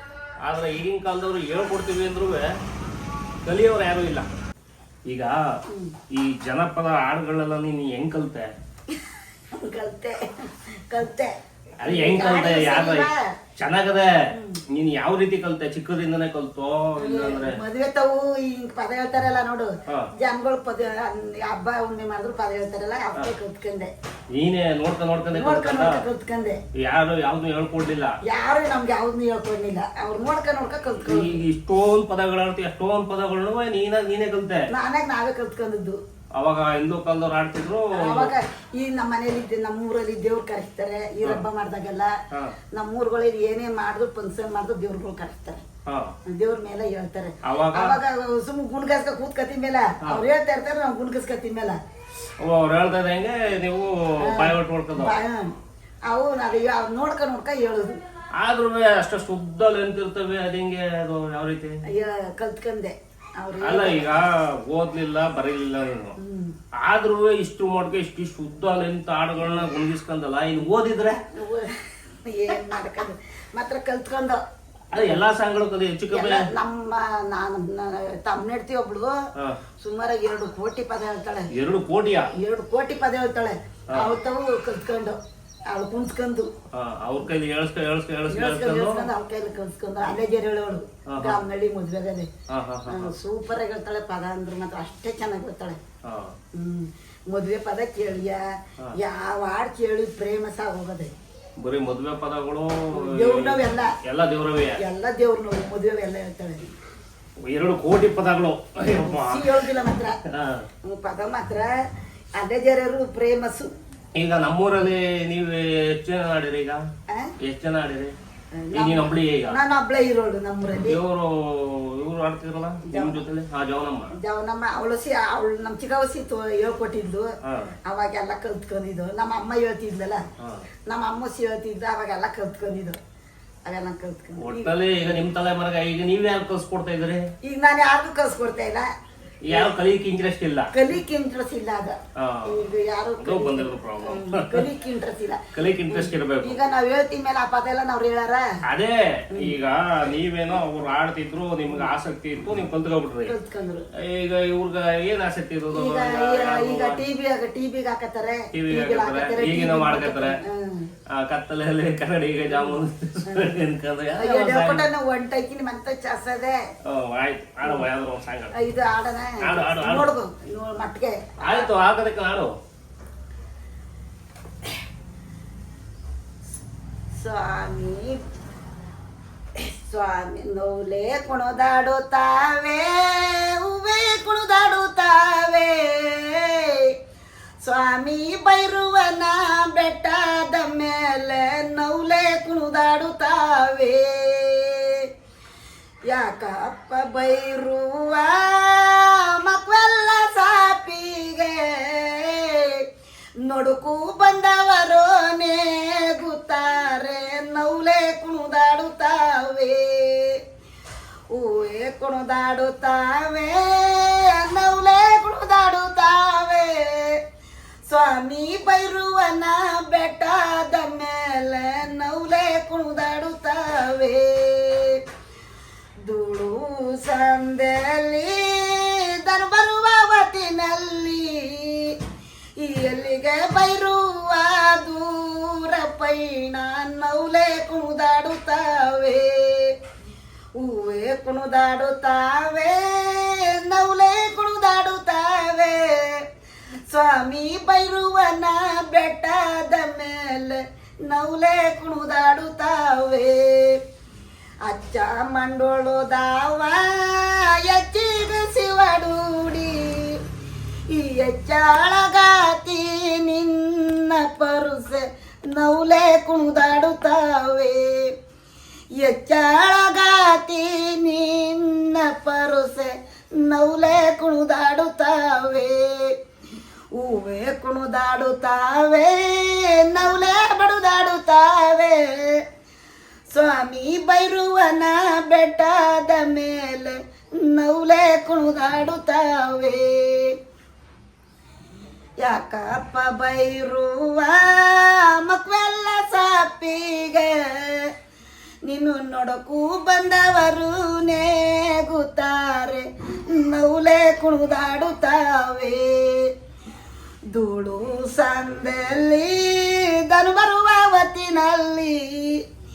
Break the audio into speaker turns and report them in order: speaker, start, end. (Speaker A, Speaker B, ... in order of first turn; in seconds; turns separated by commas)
Speaker A: 0.4-2.5, Speaker A: 3.5-4.3, Speaker A: 5.1-5.4, Speaker B: 5.7-6.0, Speaker A: 6.1-8.5, Speaker B: 9.6-13.3, Speaker A: 11.8-14.1, Speaker B: 14.3-14.6, Speaker A: 14.7-17.6, Speaker B: 17.0-23.9, Speaker A: 24.3-26.1, Speaker B: 25.3-26.6, Speaker A: 26.8-28.2, Speaker B: 28.2-31.4, Speaker A: 31.0-34.7, Speaker B: 34.7-36.0, Speaker A: 36.4-38.4, Speaker B: 37.9-42.1, Speaker A: 42.3-42.6, Speaker B: 42.7-45.6, Speaker A: 45.9-46.1, Speaker B: 46.3-51.8, Speaker A: 47.4-48.0, Speaker A: 52.4-55.1, Speaker B: 54.2-55.5, Speaker B: 56.1-58.0, Speaker A: 58.4-61.8, Speaker B: 61.9-64.2, Speaker A: 63.6-66.2, Speaker B: 66.2-66.5, Speaker A: 66.8-71.3, Speaker B: 71.3-74.4, Speaker A: 74.9-76.5, Speaker B: 74.9-75.2, Speaker B: 76.1-79.2, Speaker B: 79.8-81.5, Speaker A: 81.5-82.3, Speaker B: 82.4-85.2, Speaker A: 83.9-84.2, Speaker B: 85.7-86.5, Speaker A: 86.7-89.1, Speaker B: 88.3-92.3, Speaker A: 91.1-91.4, Speaker A: 92.5-93.1, Speaker B: 92.9-95.8, Speaker A: 96.0-96.3, Speaker B: 96.5-101.1, Speaker A: 101.6-104.8, Speaker B: 103.0-104.0, Speaker B: 104.8-106.7, Speaker A: 107.4-109.5, Speaker B: 109.0-110.2, Speaker A: 110.3-110.7, Speaker B: 110.8-111.7, Speaker B: 112.4-113.7, Speaker A: 114.2-116.8, Speaker A: 117.4-118.1, Speaker B: 118.5-121.0, Speaker A: 118.7-119.6, Speaker A: 120.8-124.1, Speaker B: 122.8-123.2, Speaker B: 124.2-127.3, Speaker A: 127.4-127.8, Speaker B: 127.9-130.2, Speaker A: 130.4-130.7, Speaker B: 130.9-133.0, Speaker B: 133.7-134.8, Speaker A: 134.4-137.3, Speaker B: 137.4-138.9, Speaker A: 139.4-140.7, Speaker B: 140.7-148.5, Speaker A: 142.2-142.6, Speaker A: 143.2-144.7, Speaker A: 145.5-146.6, Speaker A: 148.7-153.3, Speaker B: 153.3-153.9, Speaker A: 154.0-157.1, Speaker B: 155.7-160.9, Speaker A: 158.5-160.4, Speaker A: 161.1-164.9, Speaker B: 162.5-163.6, Speaker B: 164.2-166.6, Speaker A: 166.8-168.5, Speaker B: 168.5-171.7, Speaker A: 169.4-170.1, Speaker A: 171.4-172.5, Speaker B: 177.2-178.2, Speaker B: 179.6-186.9, Speaker B: 187.6-195.1, Speaker B: 196.1-202.8, Speaker B: 203.4-210.4, Speaker B: 211.3-217.2, Speaker B: 217.9-225.0, Speaker B: 226.0-231.9, Speaker B: 232.6-239.7, Speaker B: 240.6-246.2, Speaker B: 246.9-253.8, Speaker B: 254.7-260.2, Speaker B: 260.9-268.1, Speaker B: 269.0-276.1, Speaker B: 276.9-282.4, Speaker B: 283.3-290.4, Speaker B: 292.2-297.9, Speaker B: 298.7-306.3, Speaker B: 307.3-312.4